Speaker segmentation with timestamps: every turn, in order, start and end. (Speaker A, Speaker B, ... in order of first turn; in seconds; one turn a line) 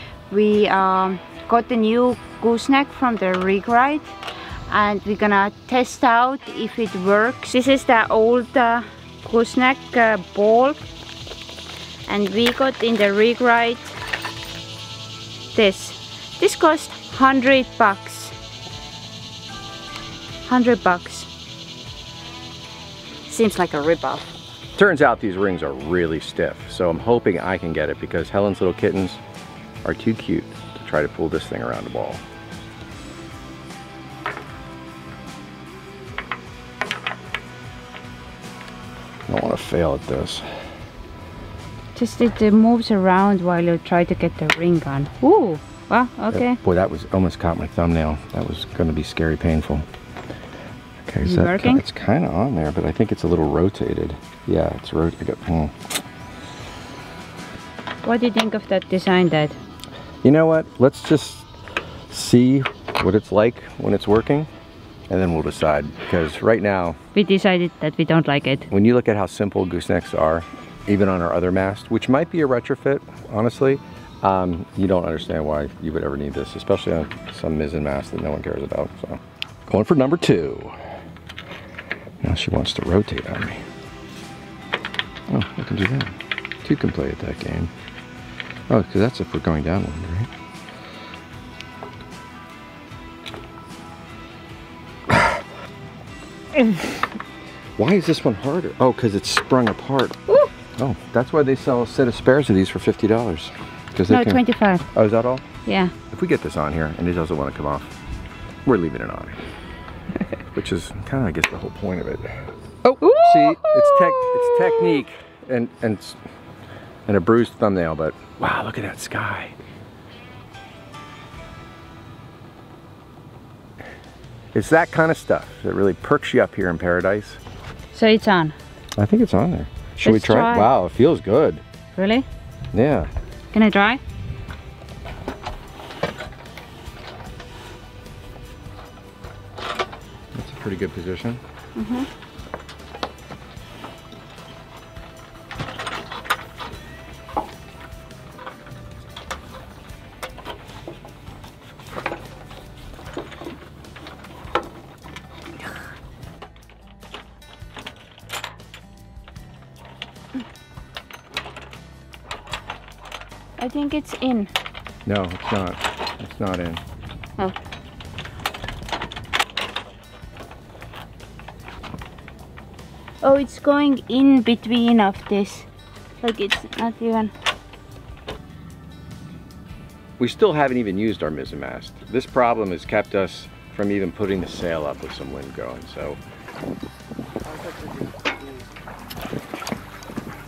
Speaker A: 0.3-4.2
Speaker A: 4.7-10.8
Speaker A: 12.1-13.9
Speaker A: 15.5-18.3
Speaker A: 20.5-21.3
Speaker A: 23.3-24.3
Speaker B: 24.8-29.2
Speaker B: 29.8-32.2
Speaker B: 39.3-40.4
Speaker A: 42.0-46.6
Speaker B: 46.3-49.9
Speaker B: 51.0-55.8
Speaker A: 51.2-51.8
Speaker A: 58.0-59.5
Speaker B: 60.2-61.5
Speaker B: 62.1-64.5
Speaker B: 65.1-67.0
Speaker A: 67.1-68.7
Speaker B: 68.7-80.8
Speaker B: 82.2-83.6
Speaker B: 85.3-87.7
Speaker B: 88.7-90.3
Speaker B: 95.1-95.4
Speaker B: 97.8-100.2
Speaker B: 100.8-105.4
Speaker A: 104.1-104.8
Speaker A: 105.6-105.9
Speaker B: 106.1-107.9
Speaker B: 108.6-109.4
Speaker B: 110.5-112.3
Speaker B: 112.9-116.2
Speaker A: 112.9-115.0
Speaker B: 117.1-119.5
Speaker B: 124.5-127.4
Speaker A: 127.9-128.6
Speaker B: 129.0-131.6
Speaker A: 130.0-130.7
Speaker A: 131.9-132.2
Speaker B: 132.7-133.1
Speaker A: 133.5-134.0
Speaker B: 140.3-141.4
Speaker A: 141.8-142.1
Speaker A: 163.6-164.5
Speaker B: 165.0-166.8
Speaker A: 173.2-175.7
Speaker A: 176.2-177.3
Speaker B: 180.2-186.2
Speaker B: 187.4-188.7